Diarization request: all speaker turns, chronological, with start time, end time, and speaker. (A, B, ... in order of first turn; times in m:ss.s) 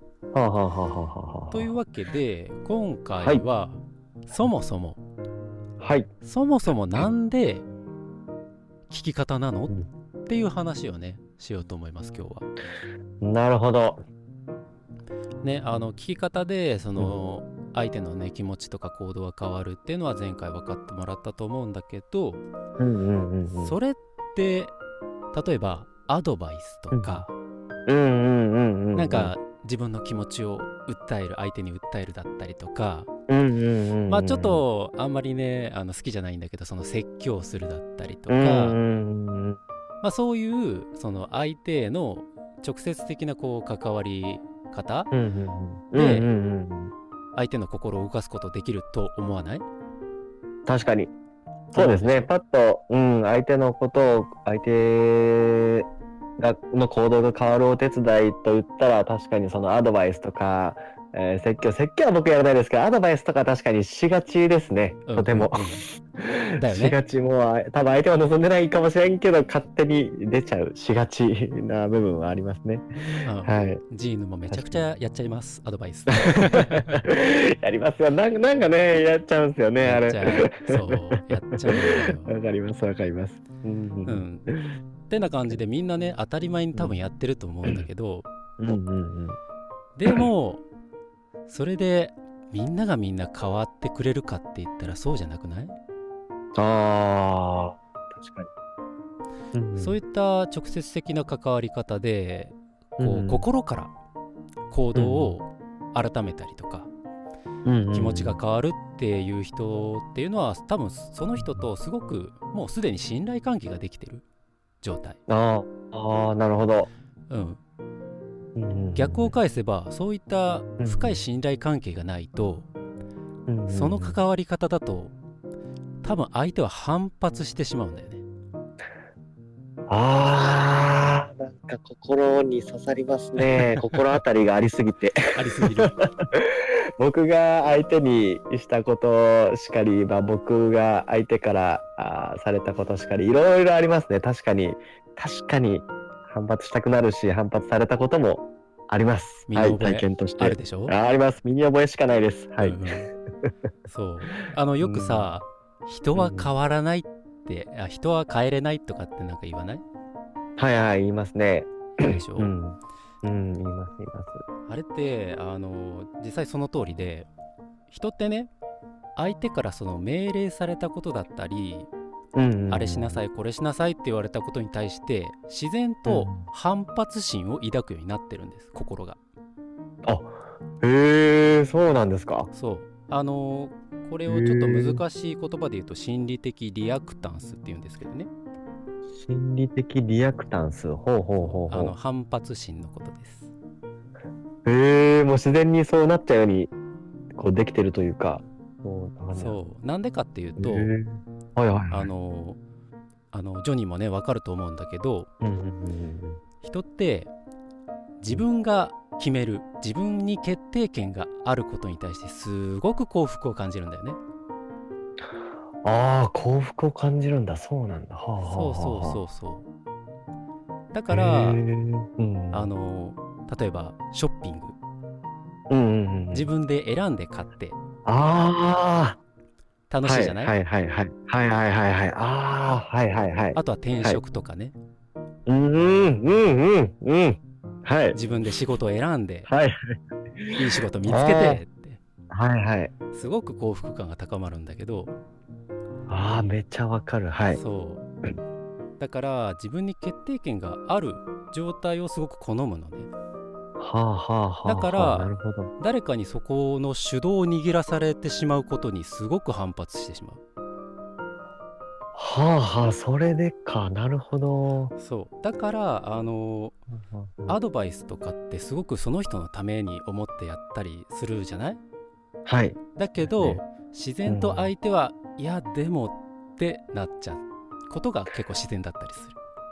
0:00.3-0:01.8 A
0:01.5-0:05.0 B
0:05.8-0:06.1 A
0:06.2-0:07.6 B
0:08.9-0:12.5 B
0:13.2-0:14.0 A
0:15.4-0:22.4 B
0:22.8-0:23.8 A
0:23.6-0:24.7 B
0:25.3-0:27.3 B
0:26.9-0:27.2 A
0:27.9-0:29.3 A
0:28.9-0:33.1 B
0:33.3-0:34.6 A
0:34.1-0:38.8 B
0:38.3-0:39.6 A
0:40.0-0:45.1 B
0:45.1-0:46.9 A
0:45.9-0:46.3 B
0:47.3-0:49.6 B
0:50.6-0:51.1 A
0:51.7-0:55.9 A
0:51.7-0:52.3 B
0:56.4-1:13.8 A
1:05.1-1:05.8 B
1:06.6-1:07.0 B
1:13.2-1:17.0 B
1:14.5-1:14.8 A
1:16.1-1:24.8 A
1:19.8-1:22.3 B
1:24.0-1:24.5 B
1:25.1-1:28.2 B
1:26.7-1:27.0 A
1:28.6-1:29.4 A
1:30.0-1:30.6 B
1:31.5-1:35.8 B
1:36.6-1:38.5 A
1:39.5-1:40.0 A
1:39.8-1:43.9 B
1:43.0-1:43.4 A
1:44.7-1:46.9 B
1:44.9-1:45.4 A
1:47.6-1:48.4 A
1:47.9-1:54.2 B
1:54.8-1:55.2 B
1:55.3-1:56.9 A
1:57.3-1:57.6 B
1:58.6-1:59.4 A
1:58.9-2:02.7 B
2:00.8-2:01.2 A
2:03.5-2:04.2 A
2:03.7-2:05.1 B
2:06.0-2:08.2 B
2:09.9-2:15.2 A
2:13.4-2:14.0 B
2:15.3-2:16.0 B
2:15.7-2:32.8 A
2:29.5-2:30.9 B
2:32.6-2:33.1 B
2:33.9-2:39.8 B
2:34.8-2:35.3 A
2:36.2-2:36.5 A
2:40.6-2:44.4 A
2:42.0-2:42.5 B
2:44.7-2:47.3 B
2:47.9-2:48.5 B
2:49.2-2:51.9 B
2:52.3-2:53.2 A
2:52.7-2:59.2 B
2:56.0-2:56.4 A
3:00.0-3:02.5 A
3:02.5-3:08.3 B
3:04.2-3:05.0 A
3:09.2-3:11.9 A
3:11.4-3:13.5 B
3:14.6-3:16.7 A
3:17.3-3:19.6 A
3:19.3-3:20.9 B
3:20.6-3:22.1 A
3:21.9-3:22.6 B
3:23.3-3:25.3 B
3:25.4-3:26.4 A
3:26.6-3:27.3 B
3:28.2-3:34.2 B
3:35.8-3:39.2 A
3:38.4-3:39.7 B
3:40.9-3:41.6 B
3:41.1-3:42.7 A
3:42.5-3:44.8 B
3:45.7-3:46.5 A
3:46.3-3:47.8 B
3:48.0-3:49.2 A
3:49.9-3:50.5 B
3:50.0-3:54.2 A
3:53.5-3:54.7 B
3:55.5-3:58.2 A
3:58.1-3:59.5 B
3:59.5-4:01.6 A
4:00.6-4:02.0 B
4:02.3-4:02.9 A
4:03.1-4:05.1 B
4:06.1-4:07.6 A
4:07.5-4:08.0 B
4:09.0-4:13.1 B
4:13.8-4:15.7 A
4:14.6-4:20.4 B
4:22.1-4:24.9 A
4:25.0-4:26.8 B
4:26.9-4:27.6 A
4:27.5-4:31.8 B
4:32.4-4:33.6 A
4:33.0-4:39.4 B
4:34.2-4:34.7 A